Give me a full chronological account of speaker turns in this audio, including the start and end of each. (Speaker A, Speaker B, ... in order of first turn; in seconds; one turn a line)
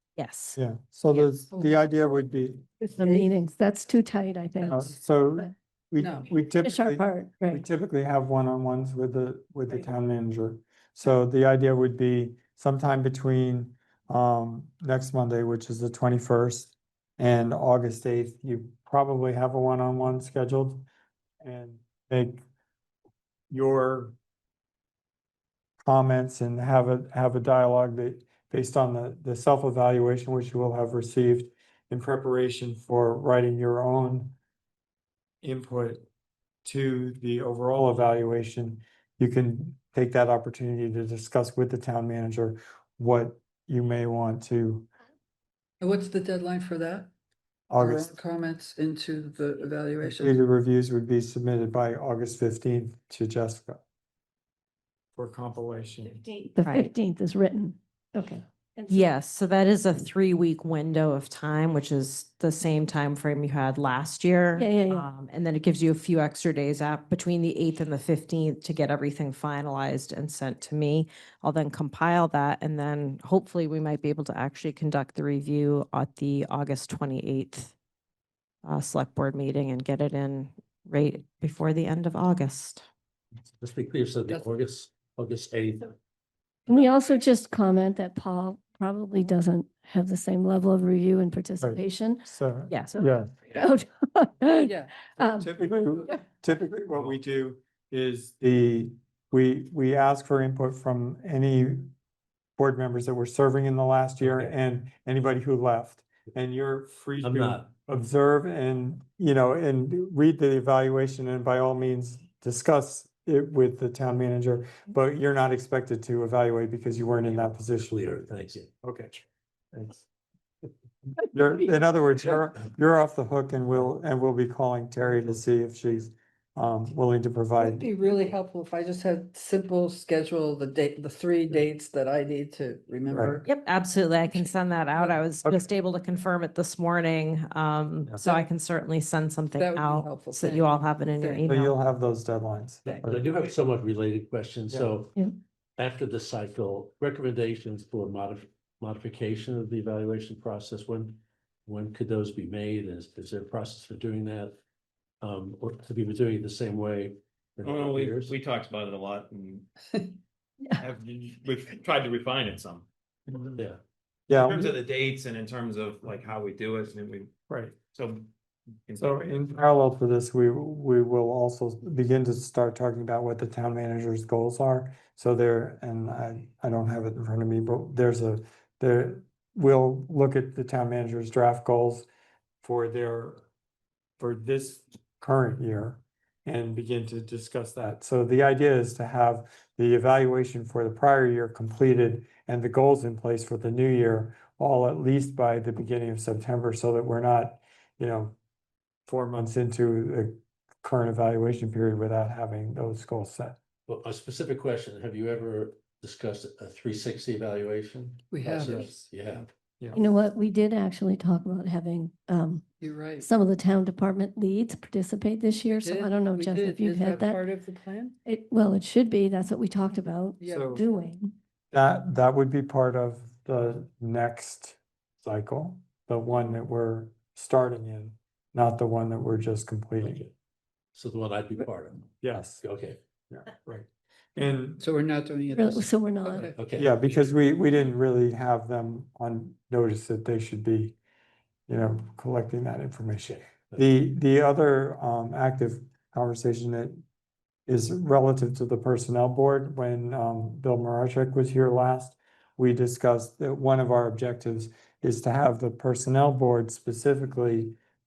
Speaker A: 0.2-0.6
Speaker B: 0.6-2.6
Speaker C: 2.8-4.9
Speaker D: 3.0-3.4
Speaker D: 4.6-4.9
Speaker B: 4.7-20.9
Speaker D: 6.0-6.3
Speaker C: 6.6-7.6
Speaker B: 21.4-22.4
Speaker B: 23.5-24.2
Speaker B: 25.8-34.4
Speaker B: 35.4-36.1
Speaker B: 36.6-44.9
Speaker D: 45.8-47.1
Speaker B: 47.7-48.1
Speaker D: 47.8-50.4
Speaker B: 50.0-53.8
Speaker B: 55.2-56.2
Speaker C: 56.3-59.1
Speaker A: 56.6-56.9
Speaker A: 58.9-77.7
Speaker C: 64.6-65.1
Speaker A: 78.6-82.8
Speaker E: 83.5-86.0
Speaker C: 86.7-92.3
Speaker B: 91.6-93.3
Speaker A: 92.7-93.1
Speaker C: 93.0-95.5
Speaker D: 94.6-94.9
Speaker B: 95.3-101.9
Speaker B: 102.6-120.0
Speaker E: 104.2-104.5
Speaker E: 107.2-107.7
Speaker E: 117.3-118.7
Speaker B: 121.2-127.9
Speaker D: 127.6-133.5
Speaker B: 133.1-133.4
Speaker A: 133.4-141.7
Speaker D: 138.2-138.5
Speaker D: 139.6-141.5
Speaker B: 141.5-143.2
Speaker E: 142.8-145.1
Speaker E: 145.8-154.6
Speaker E: 155.2-158.3
Speaker F: 157.6-159.7
Speaker D: 159.9-160.2
Speaker F: 160.8-163.6
Speaker B: 164.3-164.7
Speaker F: 164.4-167.3
Speaker B: 167.5-167.8
Speaker F: 167.9-168.3
Speaker F: 168.9-169.3
Speaker B: 169.0-182.1
Speaker B: 182.6-183.5
Speaker B: 184.2-198.4
Speaker B: 199.1-203.6
Speaker E: 203.9-209.5
Speaker D: 208.3-208.9
Speaker B: 208.6-210.0
Speaker C: 209.9-217.4
Speaker D: 212.8-213.3
Speaker D: 215.8-218.2
Speaker C: 218.2-221.2
Speaker D: 220.4-220.8
Speaker B: 220.5-220.8
Speaker B: 221.7-230.2
Speaker E: 230.0-230.3
Speaker E: 230.9-232.1
Speaker B: 232.2-232.6
Speaker E: 232.6-233.0
Speaker B: 233.3-234.8
Speaker D: 234.8-236.6
Speaker C: 235.5-236.5
Speaker E: 236.5-237.0
Speaker B: 236.6-241.0
Speaker B: 241.7-247.0
Speaker B: 247.7-257.8